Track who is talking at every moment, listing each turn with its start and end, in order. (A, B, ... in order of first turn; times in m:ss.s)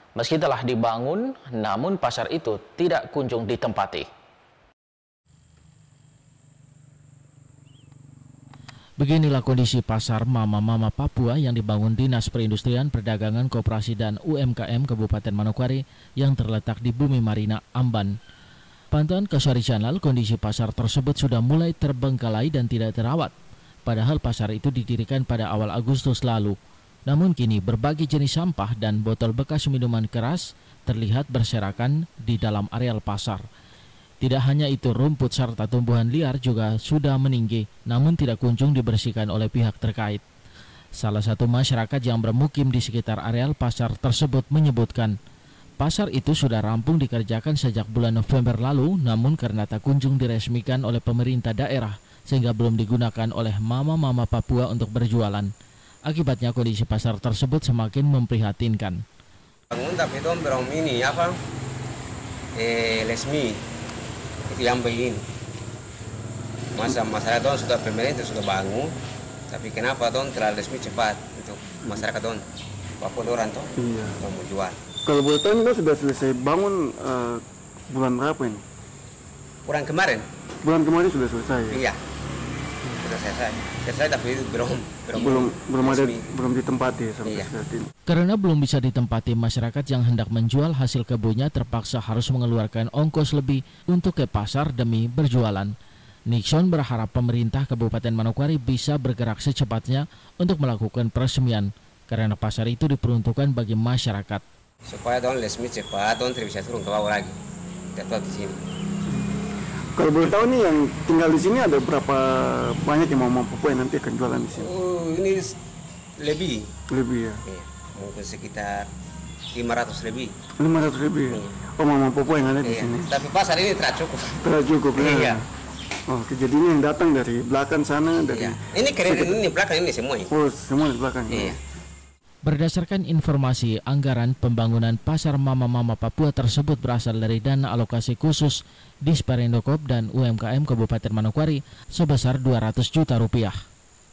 0:00.2-0:04.1 A
0:09.0-0:18.2 B
0:18.9-0:23.3 B
0:23.9-0:33.4 B
0:34.2-0:40.2 B
0:41.0-0:45.2 B
0:45.8-0:55.5 B
0:56.1-0:59.0 B
0:59.7-1:01.4 C
1:02.6-1:03.6 C
1:04.5-1:05.2 C
1:06.7-1:09.0 C
1:09.5-1:12.4 C
1:13.0-1:14.8 C
1:13.8-1:14.2 D
1:15.0-1:18.6 D
1:19.7-1:20.2 C
1:20.6-1:21.8 D
1:21.7-1:22.0 C
1:23.0-1:26.3 C
1:25.1-1:27.9 D
1:27.2-1:27.5 C
1:28.1-1:35.7 B
1:36.3-1:44.4 B
1:44.9-1:47.4 C
1:48.0-1:48.6 C
1:50.0-1:54.7 D
1:54.5-1:55.6 C
1:56.2-1:56.7 C
1:56.9-1:57.4 D
1:57.5-1:58.9 C
1:59.5-2:00.3 C
2:00.6-2:03.1 D
2:01.3-2:01.5 C
2:02.3-2:05.4 C
2:04.4-2:05.4 D
2:06.1-2:09.4 D
2:08.3-2:10.3 C
2:10.3-2:11.6 D
2:11.3-2:11.6 C
2:12.4-2:23.6 B